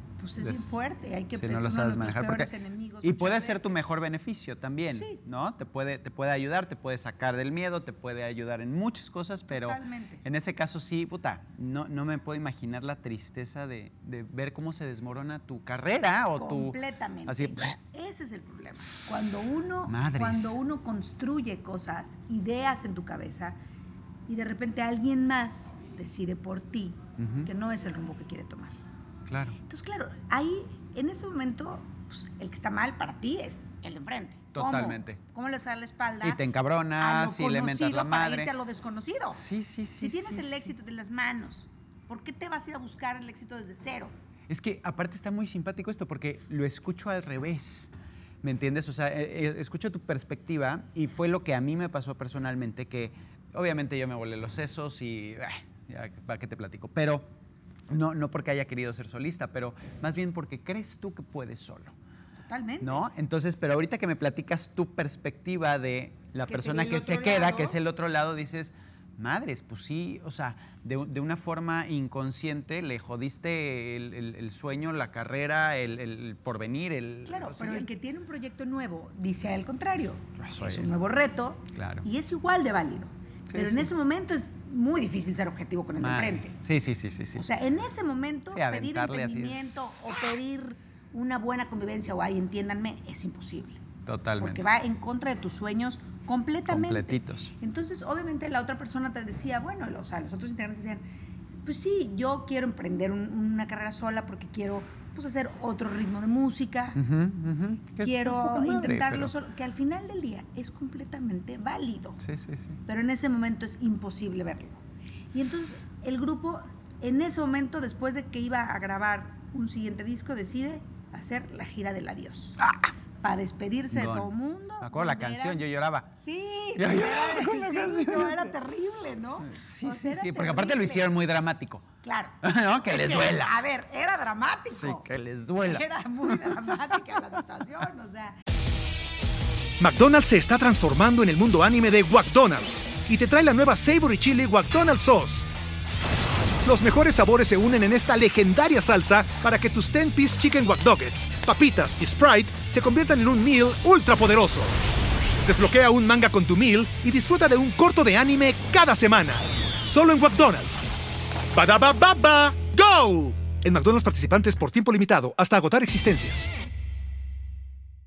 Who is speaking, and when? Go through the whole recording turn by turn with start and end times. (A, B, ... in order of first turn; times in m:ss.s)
0:00.2-0:03.8 A
0:00.4-0:00.7 B
0:01.3-0:02.5 B
0:03.0-0:17.8 B
0:04.9-0:05.2 A
0:09.5-0:10.2 A
0:16.4-0:23.6 A
0:19.9-0:20.6 B
0:24.3-0:28.8 A
0:27.2-0:27.5 B
0:29.3-0:29.6 B
0:29.6-0:36.4 A
0:34.5-0:35.2 B
0:36.2-0:38.5 B
0:37.0-0:39.4 A
0:39.4-0:40.7 B
0:40.0-0:44.1 A
0:44.5-0:57.3 B
0:57.9-1:02.0 B
1:02.4-1:03.1 A
1:02.8-1:17.9 B
1:06.5-1:07.8 A
1:17.3-1:26.6 A
1:20.4-1:20.9 B
1:21.7-1:22.1 B
1:23.5-1:23.9 B
1:26.0-1:27.5 B
1:27.4-1:33.9 A
1:28.5-1:30.4 B
1:34.1-1:34.6 B
1:34.4-1:41.0 A
1:36.7-1:37.5 B
1:41.6-1:47.0 A
1:47.0-1:49.3 B
1:48.0-1:52.2 A
1:52.2-1:52.8 B
1:52.8-2:02.6 A
2:02.6-2:02.9 B
2:03.2-2:05.6 A
2:03.9-2:06.1 B
2:06.1-2:11.2 A
2:06.8-2:08.6 B
2:09.4-2:11.9 B
2:12.0-2:15.1 A
2:12.4-2:13.5 B
2:14.7-2:17.4 B
2:15.6-2:18.4 A
2:19.8-2:25.5 C
2:26.6-2:34.7 C
2:35.4-2:40.8 C
2:41.5-2:46.5 C